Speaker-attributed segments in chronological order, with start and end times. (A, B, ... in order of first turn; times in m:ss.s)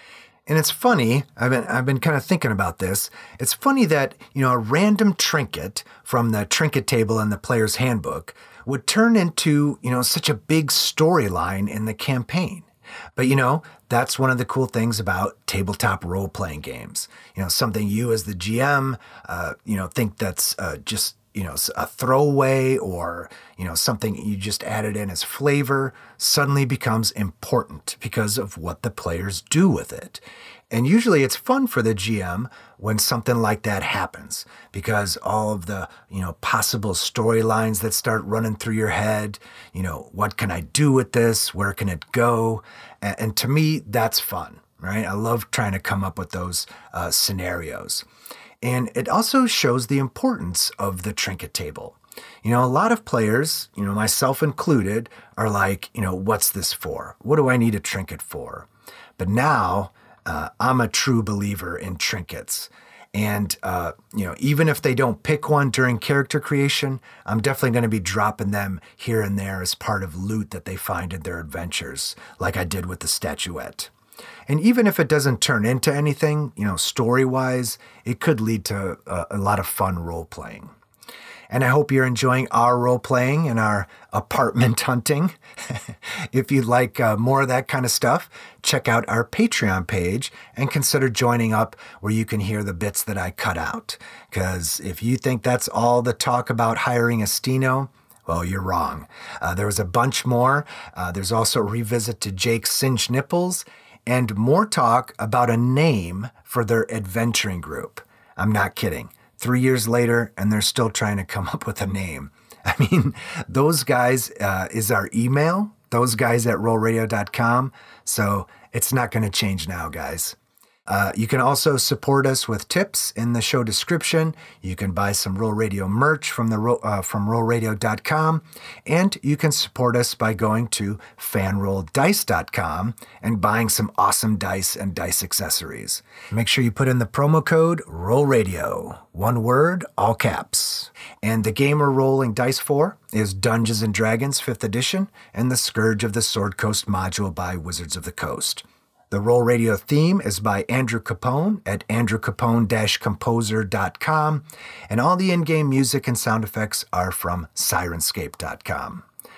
0:00.5-0:48.0 A
0:48.6-1:13.9 A
1:14.5-1:20.7 A
1:21.5-2:00.4 A
2:00.9-2:39.0 A